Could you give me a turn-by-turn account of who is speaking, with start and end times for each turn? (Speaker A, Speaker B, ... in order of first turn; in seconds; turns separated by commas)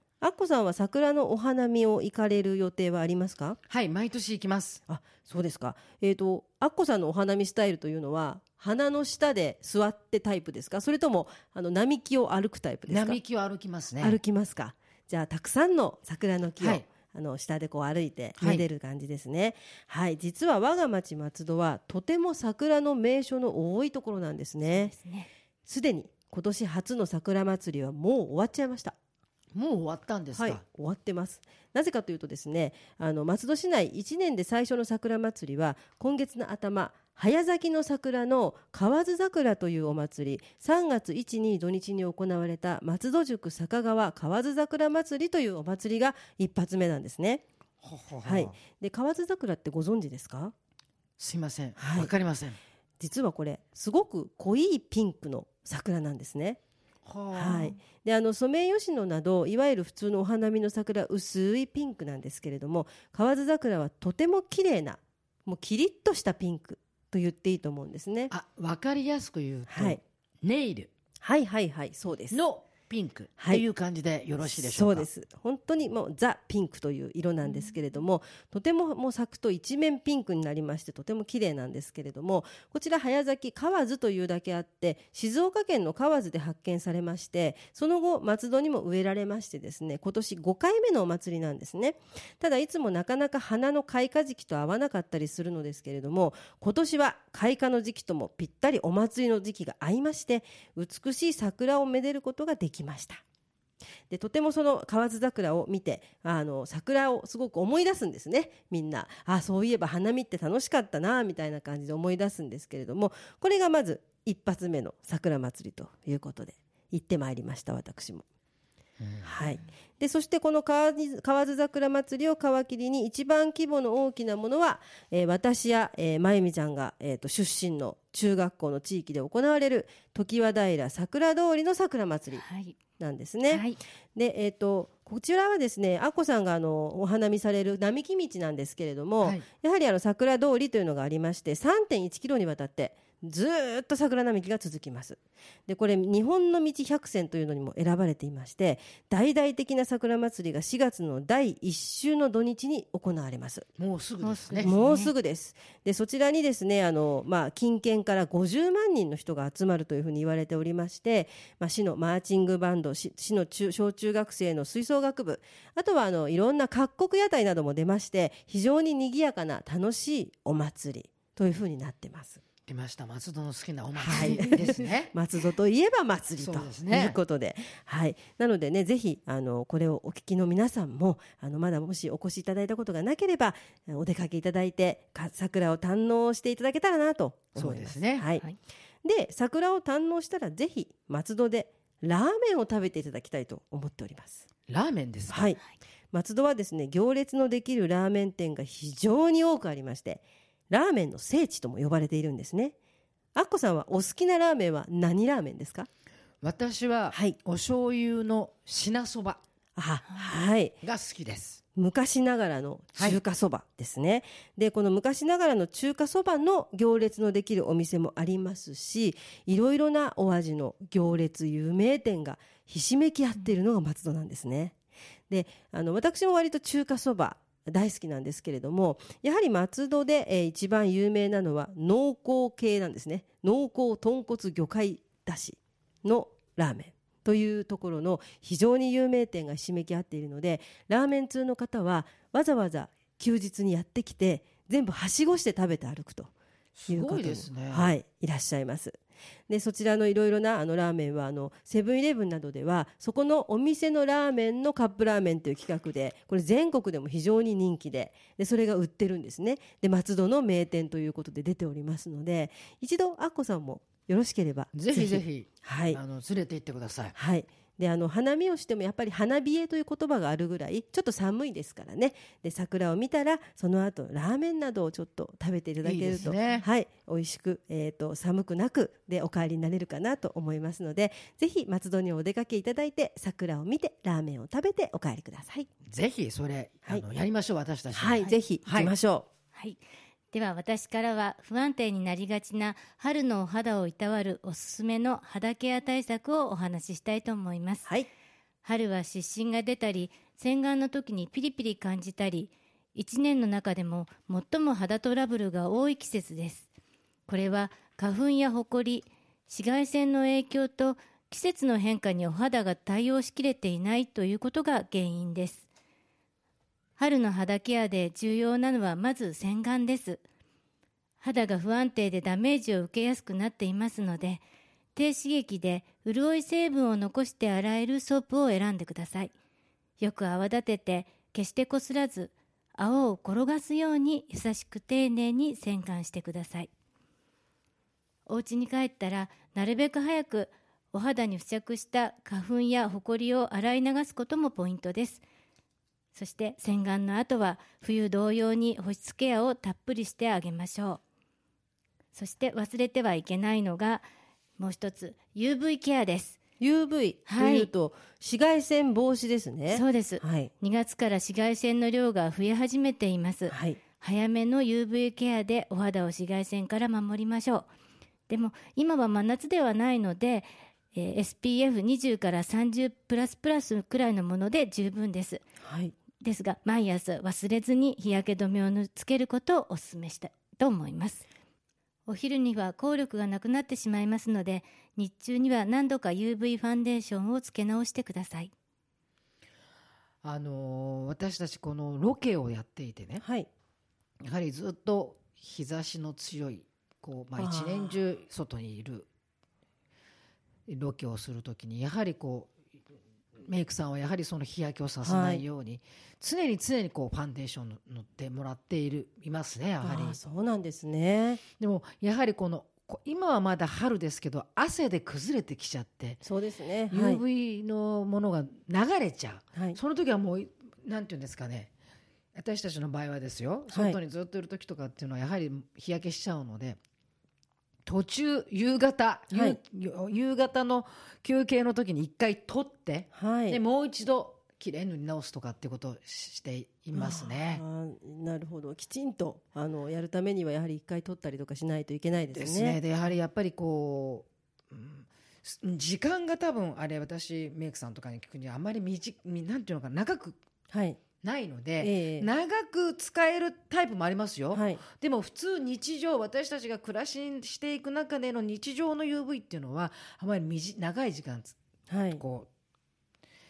Speaker A: 0.2-3.6, Speaker B: 3.7-4.8, Speaker A: 4.9-13.2, Speaker B: 12.9-14.2, Speaker A: 14.0-24.9, Speaker B: 16.6-16.9, Speaker B: 18.4-18.6, Speaker C: 24.7-25.3, Speaker A: 25.7-29.0, Speaker B: 29.5-30.6, Speaker A: 30.4-47.4, Speaker B: 47.8-48.6, Speaker A: 48.2-50.5, Speaker B: 51.2-52.6, Speaker A: 51.8-52.1, Speaker A: 53.0-56.6, Speaker B: 57.0-57.7, Speaker A: 57.3-68.3, Speaker C: 57.5-57.7, Speaker B: 68.3-70.9, Speaker A: 69.7-70.0, Speaker A: 71.2-72.4, Speaker B: 72.3-75.1, Speaker A: 73.4-73.6, Speaker A: 74.5-103.2, Speaker C: 77.4-77.8, Speaker A: 104.1-118.2, Speaker B: 119.0-119.3, Speaker A: 119.2-132.4, Speaker C: 132.4-132.8, Speaker A: 133.0-153.7, Speaker C: 133.5-133.8, Speaker B: 153.8-154.7, Speaker C: 154.2-155.1, Speaker A: 154.6-172.4, Speaker B: 172.7-175.1, Speaker A: 174.0-188.5, Speaker C: 174.1-174.5, Speaker B: 176.4-177.2, Speaker B: 187.6-188.3, Speaker A: 189.0-194.4, Speaker B: 194.7-195.5, Speaker A: 195.3-195.6, Speaker A: 196.1-202.8, Speaker A: 203.3-205.9, Speaker B: 206.4-209.4, Speaker A: 207.1-207.4, Speaker A: 209.8-210.8, Speaker B: 210.8-211.6, Speaker A: 211.8-224.8, Speaker A: 225.3-246.3, Speaker B: 246.8-247.9, Speaker A: 246.9-266.0, Speaker B: 264.7-267.2, Speaker A: 267.1-285.7, Speaker B: 275.8-276.6, Speaker B: 285.9-288.9, Speaker A: 287.9-289.3, Speaker C: 289.6-289.8, Speaker C: 290.3-297.9, Speaker C: 298.6-306.7, Speaker C: 307.3-315.7, Speaker C: 317.0-320.2, Speaker C: 321.2-324.4, Speaker C: 325.0-329.3, Speaker C: 330.0-336.7, Speaker C: 338.3-345.2, Speaker C: 346.1-351.0, Speaker C: 352.1-354.1, Speaker C: 354.6-356.4, Speaker A: 356.6-360.5, Speaker C: 357.3-357.7, Speaker C: 359.7-367.7, Speaker A: 363.5-363.8, Speaker C: 368.3-375.4, Speaker A: 375.6-375.9, Speaker C: 376.2-381.2, Speaker C: 382.1-388.5, Speaker B: 390.2-393.2, Speaker A: 393.2-393.5, Speaker B: 394.2-399.1, Speaker A: 397.4-398.0, Speaker B: 400.7-402.5, Speaker B: 403.4-410.2, Speaker A: 405.0-405.4, Speaker A: 409.8-411.4, Speaker B: 411.6-416.2, Speaker A: 416.2-417.2, Speaker B: 416.9-421.7, Speaker A: 419.5-419.8, Speaker B: 422.4-426.8, Speaker A: 423.7-424.0, Speaker B: 427.9-437.6, Speaker A: 429.3-429.6, Speaker A: 433.1-433.6, Speaker A: 436.9-442.8, Speaker B: 442.3-450.4, Speaker A: 450.7-451.0, Speaker B: 451.2-461.6, Speaker A: 451.8-452.3, Speaker A: 454.5-454.8, Speaker A: 461.9-462.2, Speaker B: 462.2-462.5